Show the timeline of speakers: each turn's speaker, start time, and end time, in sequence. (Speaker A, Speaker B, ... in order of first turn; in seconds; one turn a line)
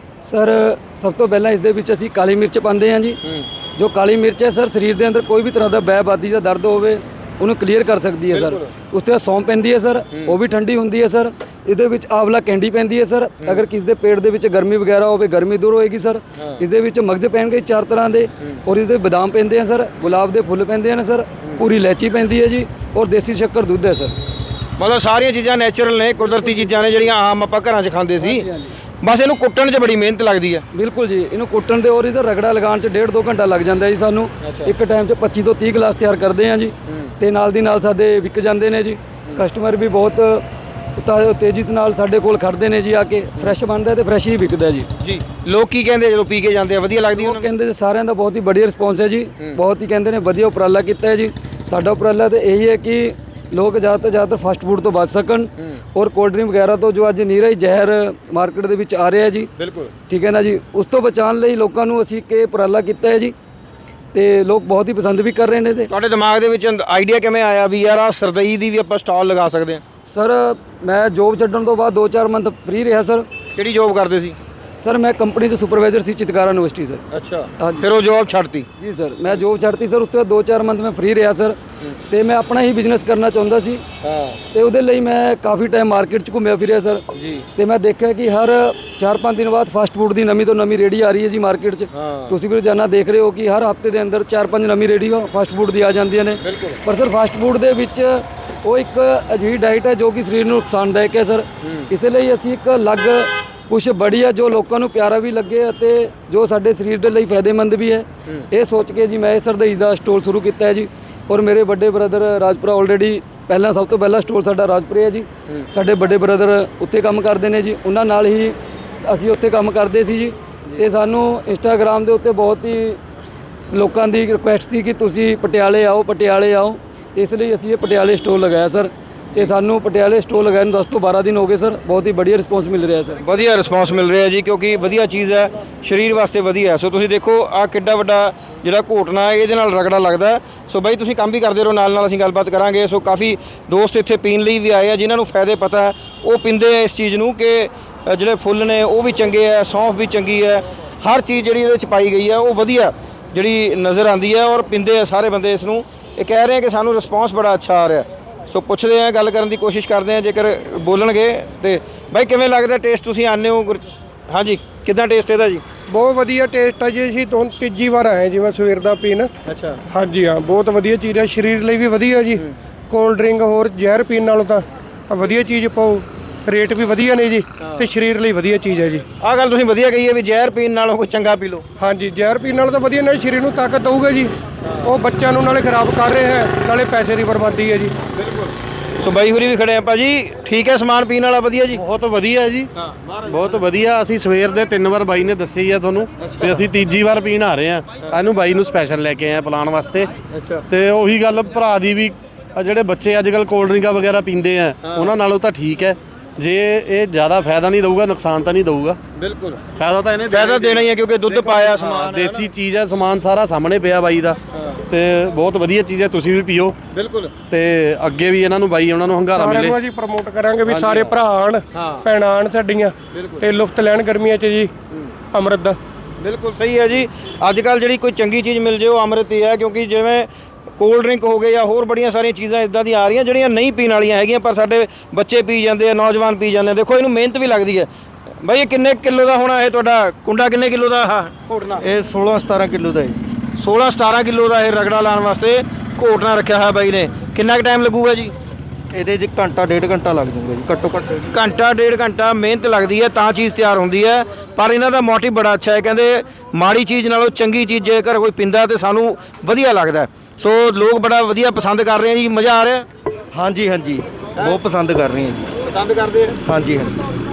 Speaker A: 0.2-3.2
Speaker A: 3.8-24.1
Speaker B: 8.3-8.7
Speaker B: 24.8-28.4
Speaker A: 28.2-28.7
Speaker B: 29.0-30.6
Speaker A: 30.7-40.4
Speaker B: 34.4-34.7
Speaker A: 41.0-44.9
Speaker B: 45.0-47.5
Speaker A: 47.1-59.5
Speaker B: 59.6-59.9
Speaker A: 60.1-63.3
Speaker A: 64.1-65.9
Speaker B: 65.9-69.8
Speaker A: 70.1-73.3
Speaker B: 73.5-74.3
Speaker A: 74.7-77.0
Speaker B: 77.1-78.7
Speaker A: 78.8-81.6
Speaker A: 82.1-83.8
Speaker B: 84.0-84.4
Speaker A: 84.5-87.0
Speaker B: 87.2-87.4
Speaker A: 87.5-123.0
Speaker B: 92.0-92.3
Speaker B: 96.4-96.8
Speaker A: 123.7-133.2
Speaker B: 133.2-165.6
Speaker C: 165.9-169.3
Speaker B: 169.4-169.8
Speaker C: 169.9-179.0
Speaker B: 177.6-177.9
Speaker B: 179.2-181.6
Speaker C: 181.8-184.3
Speaker B: 184.7-184.9
Speaker C: 184.8-187.9
Speaker B: 188.1-191.8
Speaker D: 191.7-192.7
Speaker B: 192.8-193.4
Speaker D: 193.2-200.1
Speaker B: 196.2-196.6
Speaker B: 200.3-200.6
Speaker D: 200.7-209.0
Speaker B: 209.2-209.6
Speaker D: 209.8-214.4
Speaker B: 210.3-212.4
Speaker D: 214.9-216.8
Speaker B: 216.9-217.3
Speaker D: 217.5-219.8
Speaker C: 219.3-224.7
Speaker B: 220.7-221.2
Speaker B: 221.8-222.1
Speaker B: 223.1-223.4
Speaker C: 225.3-225.8
Speaker B: 226.2-237.9
Speaker B: 238.4-241.8
Speaker E: 241.8-243.2
Speaker B: 243.6-248.3
Speaker E: 248.9-251.2
Speaker B: 251.3-262.9
Speaker E: 263.3-265.5
Speaker B: 265.6-266.3
Speaker E: 266.4-266.9